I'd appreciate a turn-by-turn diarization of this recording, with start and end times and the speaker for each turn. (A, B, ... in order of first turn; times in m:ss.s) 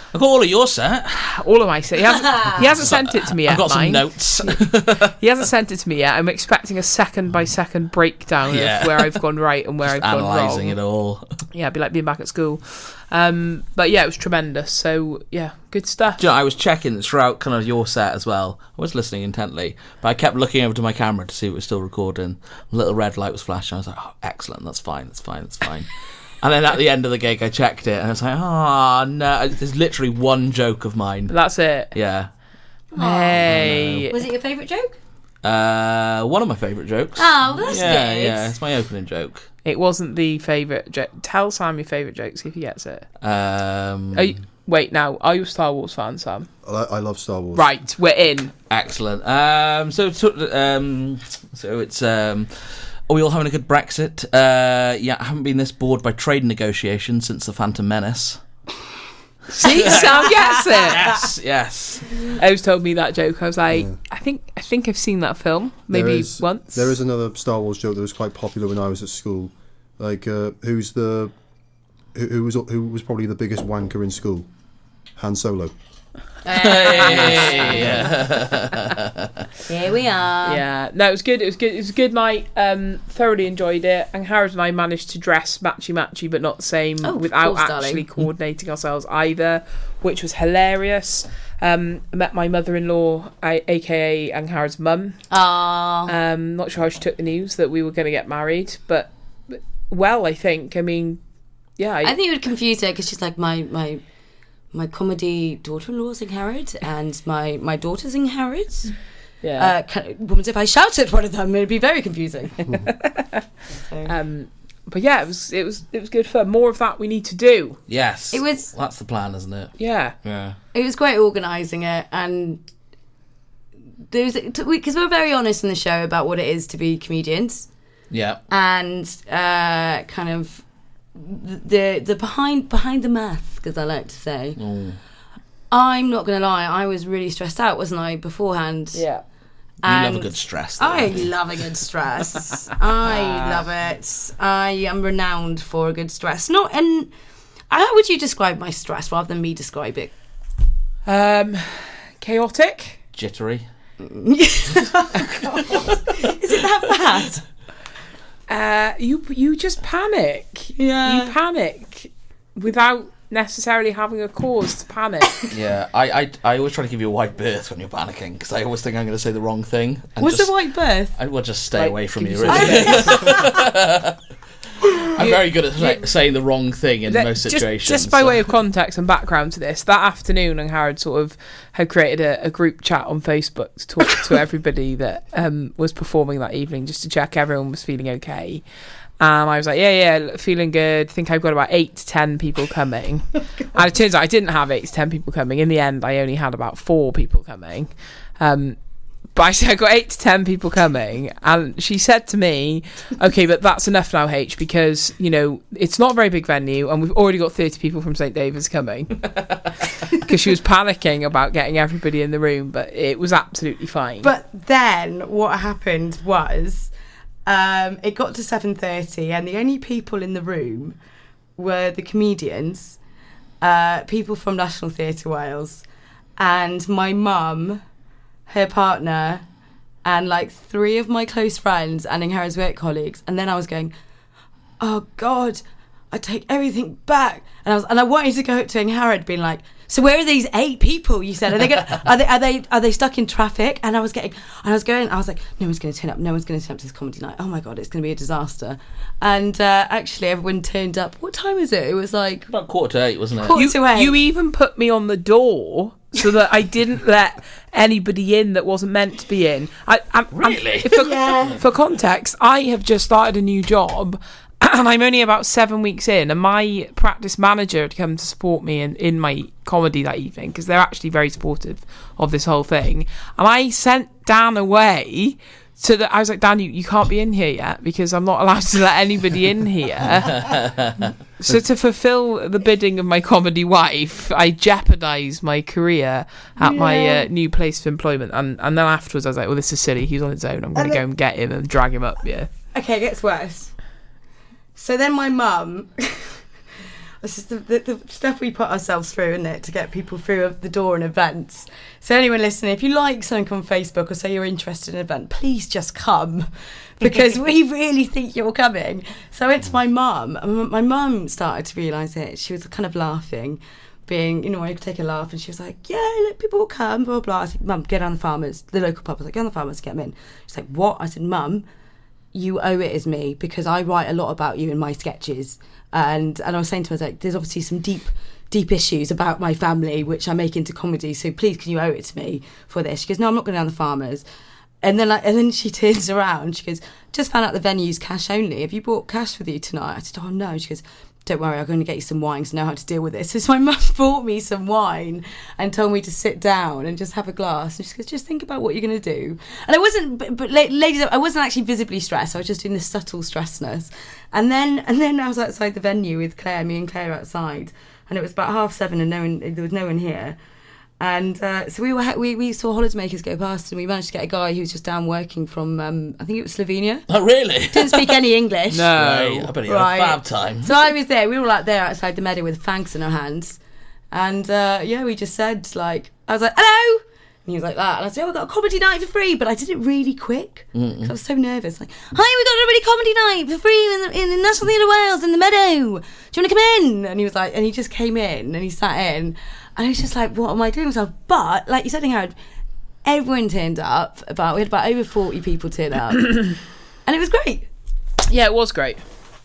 0:00.1-0:01.4 A
0:01.4-0:10.8 B
0:02.7-0:05.1 A
0:08.5-0:09.2 A
0:09.8-0:11.3 A
0:11.5-0:16.2 B
0:16.2-0:31.4 A
0:31.3-0:31.9 B
0:31.9-0:32.3 A
0:32.9-0:33.5 C
0:33.0-0:34.2 B
0:33.4-0:34.1 A
0:34.1-0:35.0 C
0:35.4-0:39.5 A
0:37.2-0:38.5 C
0:39.6-0:43.1 B
0:43.2-0:44.3 A
0:44.2-0:46.5 B
0:46.6-0:47.8 D
0:47.6-0:48.5 B
0:48.7-0:58.4 A
0:59.6-1:01.0 B
0:59.6-1:02.1 A
0:59.7-1:01.2 C
1:02.3-1:06.9 B
1:05.9-1:11.3 D
1:12.1-1:14.5 D
1:15.2-1:15.7 D
1:16.4-1:18.1 C
1:16.6-1:19.3 A
1:17.2-1:17.5 B
1:19.7-1:20.6 C
1:20.4-1:35.3 B
1:27.0-1:28.0 C
1:35.3-1:36.1 C
1:36.1-1:41.2 B
1:41.8-1:42.1 B
1:42.0-1:44.0 C
1:44.7-1:49.0 C
1:49.4-1:49.7 B
1:49.6-1:52.7 C
1:52.9-1:53.4 B
1:53.7-1:54.1 C
1:54.0-1:57.8 B
1:57.9-1:59.7 A
1:58.3-1:58.7 C
1:59.8-2:00.2 B
2:00.2-2:00.6 A
2:00.7-2:02.6 C
2:04.1-2:07.7 C
2:08.1-2:08.4 A
2:08.5-2:14.6 C
2:14.6-2:15.0 A
2:15.7-2:19.1 C
2:18.9-2:19.2 B
2:19.8-2:27.1 C
2:19.8-2:21.6 A
2:23.1-2:23.6 B
2:27.7-2:30.1 C
2:31.1-2:33.0 B
2:33.2-2:33.7 A
2:34.0-2:37.4 C
2:38.5-2:45.4 B
2:40.8-2:41.4 C
2:45.5-2:50.5 A
2:50.2-2:51.2 C
2:51.1-2:54.2 A
2:51.8-2:53.5 B
2:52.5-2:53.5 C
2:55.2-2:56.1 B
2:55.2-2:58.4 A
2:57.1-3:08.6 B
3:09.2-3:29.3 B
3:30.1-3:34.3 B
3:34.2-3:36.9 C
3:37.5-3:41.0 C
3:41.6-3:43.0 C
3:43.6-3:45.8 C
3:46.4-3:47.8 C
3:48.5-3:49.4 C
3:50.0-3:53.9 C
3:54.8-4:12.5 C
4:12.5-4:13.6 A
4:13.4-4:14.2 C
4:13.5-4:40.5 B
4:20.3-4:20.9 A
4:20.9-4:21.6 C
4:40.3-4:41.1 A
4:41.4-4:52.5 B
4:46.6-4:47.3 C
4:50.8-4:51.0 C
4:52.7-4:53.7 C
4:54.8-4:56.4 C
4:57.2-5:06.5 C
5:07.0-5:21.6 C
5:22.3-5:34.2 C
5:34.8-6:00.4 C
6:01.0-6:07.1 C
6:07.1-6:08.2 A
6:07.7-6:08.9 C
6:08.7-6:09.5 B
6:08.9-6:10.8 A
6:09.6-6:13.6 C
6:14.1-6:32.4 C
6:20.7-6:21.1 A
6:33.0-6:37.7 C
6:38.3-6:39.0 B